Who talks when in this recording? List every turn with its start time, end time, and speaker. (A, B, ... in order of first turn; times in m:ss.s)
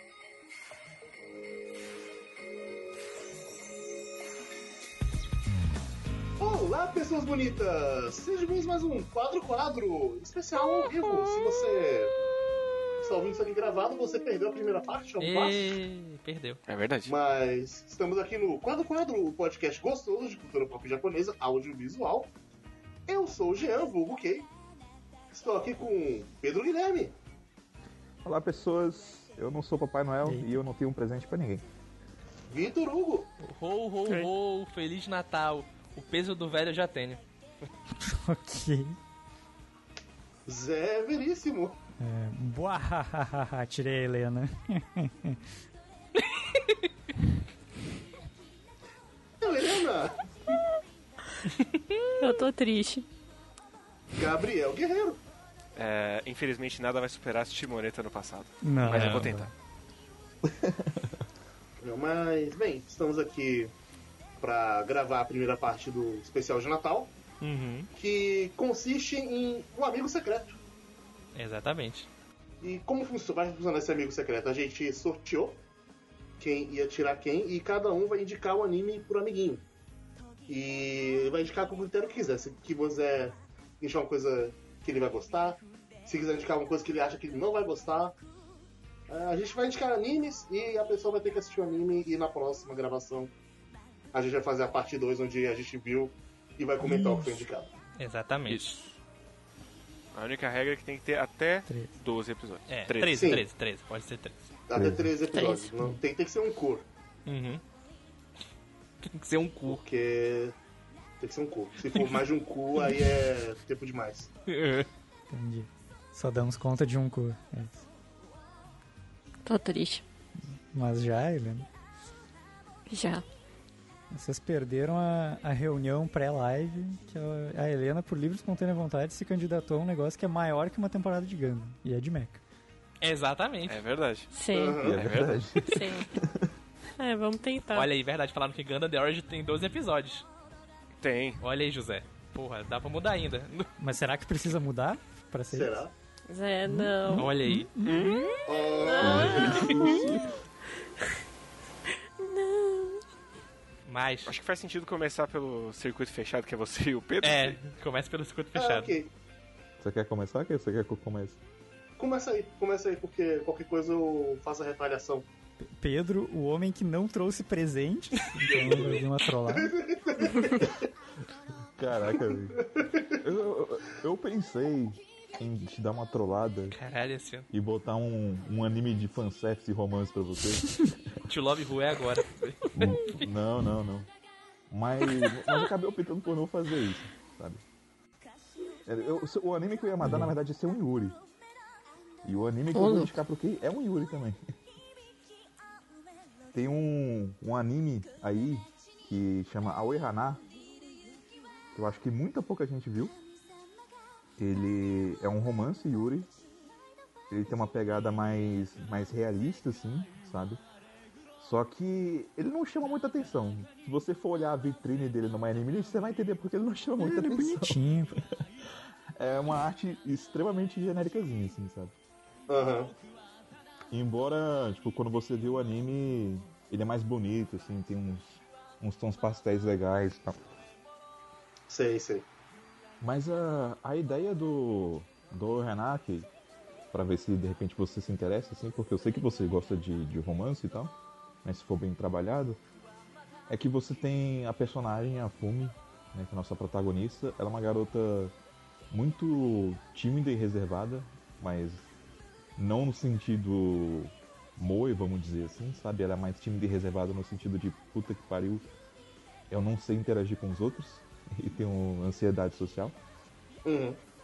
0:06.4-0:12.1 A
0:13.0-0:15.7 A
0:15.2-0:16.6 B
0:16.7-0:17.1 C
0:17.0-0:22.3 A
0:23.1-0:24.5 A
0:25.3-0:27.1 A
0:28.2-0:31.6 D
0:30.2-0:30.5 E
0:32.5-0:33.3 A
0:33.4-0:37.2 B
0:38.0-0:39.0 E
0:40.5-0:41.8 A
0:42.0-0:45.4 E
0:46.4-0:46.8 B
0:49.4-0:50.2 A
0:52.2-0:53.0 F
0:54.2-0:55.2 A
0:55.7-0:59.5 C
0:58.6-0:59.5 E
1:00.6-1:01.1 D
1:01.8-1:03.7 A
1:04.4-1:07.1 A
1:07.4-1:07.9 B
1:08.0-1:10.6 A
1:11.3-1:12.1 B
1:12.6-1:15.6 A
1:16.4-1:19.6 A
1:20.5-1:28.2 A
1:29.1-1:33.3 A
1:34.1-1:37.7 A
1:36.8-1:37.4 E
1:38.0-1:38.8 B
1:38.5-1:38.7 C
1:40.1-1:43.4 C
1:41.7-1:41.9 E
1:42.7-1:44.4 B
1:43.2-1:43.4 A
1:44.7-1:46.8 A
1:44.7-1:45.1 D
1:45.3-1:45.7 F
1:47.2-1:47.6 B
1:49.0-1:49.8 B
1:49.7-1:50.5 A
1:51.2-1:54.3 A
1:54.5-1:54.9 B
1:55.3-1:57.8 E
1:59.4-2:00.0 F
2:00.7-2:01.7 E
2:02.9-2:03.2 F
2:04.1-2:12.4 E
2:13.0-2:13.8 B
2:13.7-2:14.3 C
2:14.3-2:14.8 F
2:14.5-2:15.0 A
2:14.8-2:16.5 D
2:14.9-2:15.7 C
2:15.6-2:16.1 F
2:17.0-2:17.9 F
2:17.7-2:20.2 B
2:21.0-2:21.4 C
2:21.4-2:23.7 B
2:23.8-2:25.8 E
2:25.5-2:25.9 A
2:26.3-2:27.3 F
2:26.6-2:28.3 E
2:27.1-2:27.7 B
2:27.8-2:28.3 C
2:28.4-2:29.9 A
2:28.8-2:30.2 F
2:29.0-2:30.2 D
2:32.2-2:33.0 F
2:33.8-2:34.3 B
2:34.2-2:37.6 C
2:37.2-2:39.0 B
2:38.6-2:39.1 A
2:39.8-2:41.4 D
2:42.0-2:45.3 A
2:45.8-2:49.7 E
2:48.4-2:49.0 B
2:48.6-2:50.7 A
2:51.8-2:52.6 D
2:52.6-2:52.9 A
2:53.2-2:56.8 D
2:56.7-2:57.5 B
2:57.5-3:01.2 D
3:01.3-3:03.3 B
3:02.8-3:04.1 D
3:04.7-3:07.6 D
3:08.8-3:11.2 D
3:10.0-3:10.3 E
3:12.2-3:14.4 D
3:12.7-3:13.1 F
3:16.5-3:20.4 D
3:21.7-3:23.1 D
3:24.4-3:26.3 D
3:27.3-3:30.6 D
3:31.4-3:38.2 D
3:37.0-3:37.8 E
3:39.2-3:41.9 D
3:42.5-3:42.9 A
3:43.9-3:50.4 D
3:51.7-3:52.2 A
3:53.0-3:56.3 D
3:56.9-4:02.6 D
4:03.5-4:08.3 D
4:08.9-4:11.9 D
4:12.6-4:18.6 D
4:19.5-4:23.0 D
4:23.6-4:24.0 A